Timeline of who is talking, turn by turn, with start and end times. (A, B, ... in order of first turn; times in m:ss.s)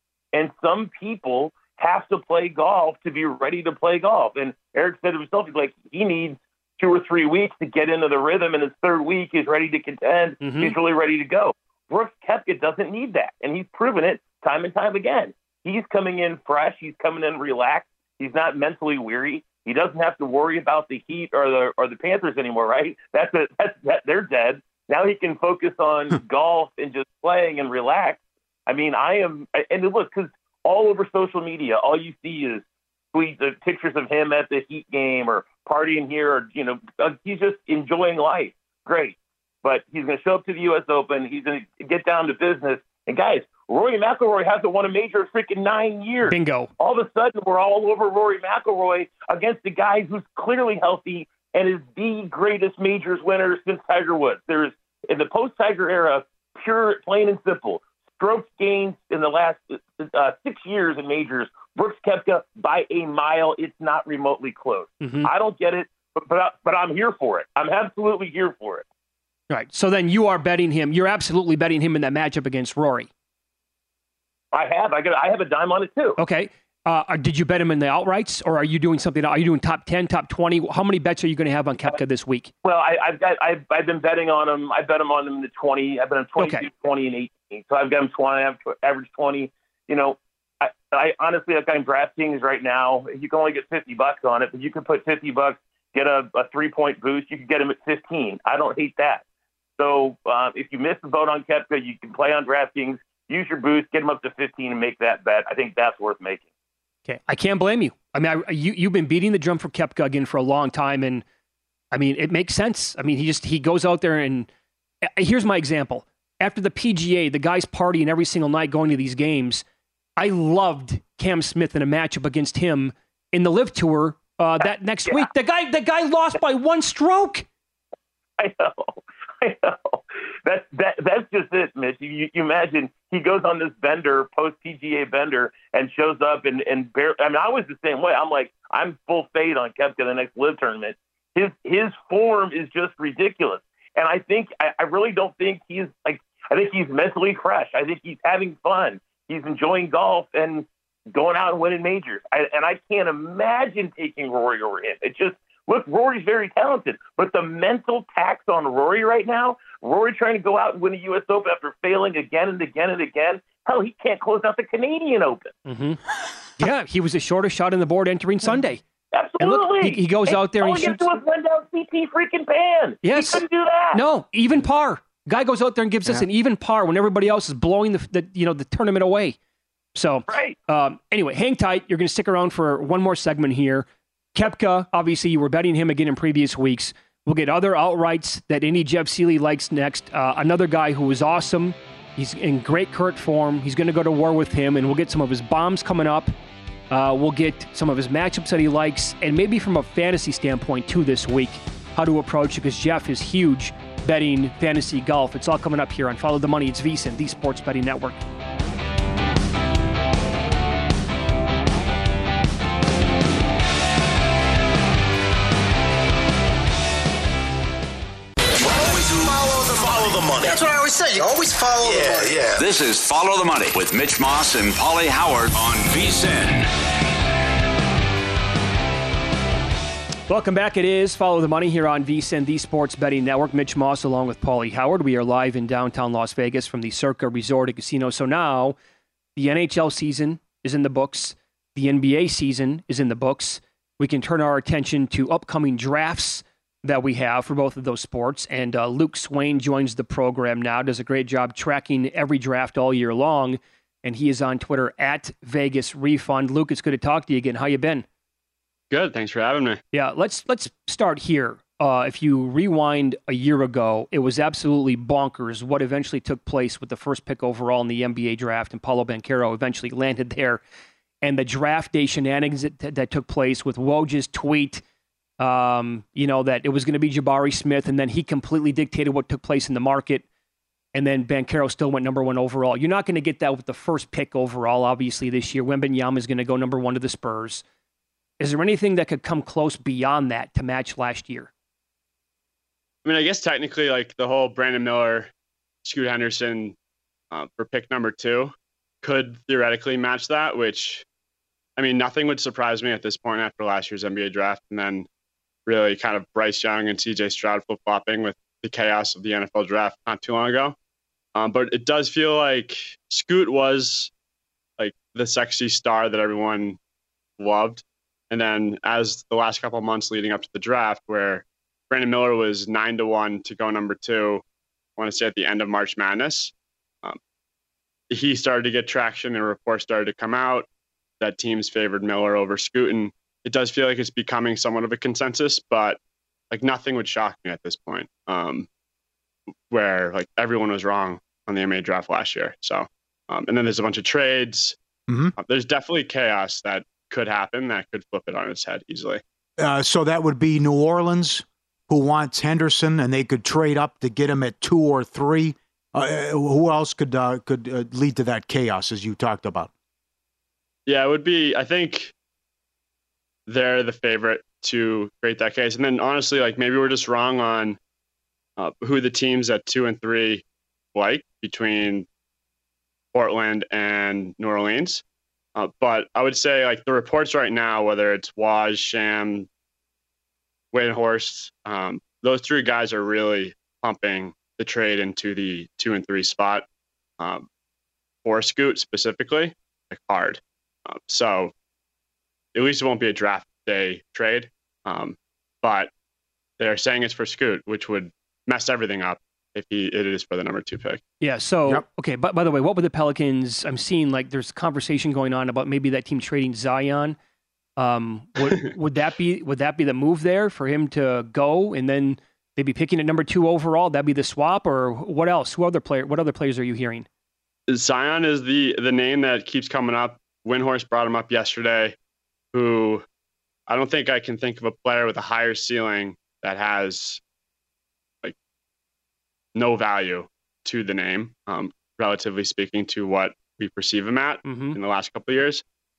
0:00.3-1:08.8 A
0:10.4-0:10.8 B
0:46.3-0:46.7 B
1:05.0-1:05.3 B
1:09.5-1:13.1 B
1:14.5-1:16.2 A
1:16.2-1:22.5 B
1:22.6-1:39.2 A
1:26.4-1:26.6 B
1:39.8-1:46.4 A
1:47.1-1:51.2 B
1:51.9-1:54.5 B
1:55.0-1:59.6 B
2:00.2-2:07.5 B
2:08.4-2:45.5 A
2:45.7-2:46.0 B
2:46.6-2:48.8 B
2:49.1-2:54.0 A
2:49.4-2:51.0 B
2:53.0-2:59.4 B
3:00.0-3:16.3 B
3:00.3-3:00.6 A
3:16.9-3:28.2 B
3:38.6-3:42.6 C
3:42.6-3:46.7 D
3:50.3-3:58.8 B
3:59.4-4:18.1 B
4:18.9-4:19.8 E
4:19.9-4:30.6 B
4:31.2-4:34.8 B
4:35.4-4:40.2 B
4:40.9-4:47.6 B
4:48.4-4:51.5 B
4:53.0-4:55.3 E
4:55.8-4:56.8 E
4:57.3-5:01.0 E
5:01.8-5:05.1 E
5:05.7-5:10.8 E
5:11.4-5:14.1 E
5:14.8-5:16.8 E
5:17.4-5:24.4 E
5:25.0-5:26.5 E
5:28.1-5:30.7 E
5:31.2-5:36.0 E
5:36.5-5:38.7 E
5:39.7-5:44.8 E
5:45.1-5:45.4 F
5:45.4-5:49.2 E
5:49.6-5:59.7 F
6:00.9-6:02.1 E
6:03.5-6:07.8 E
6:08.6-6:10.4 E
6:10.9-6:12.1 E
6:13.1-6:15.0 E
6:15.6-6:19.5 E
6:20.7-6:26.6 E
6:27.2-6:27.5 E
6:28.2-6:31.5 E
6:32.6-6:35.9 E
6:36.6-6:41.0 E
6:41.2-6:47.2 B
6:47.8-6:57.1 B
6:57.7-7:02.0 E
7:02.5-7:03.0 E
7:03.7-7:07.2 E
7:09.6-7:15.6 E
7:14.4-7:14.8 B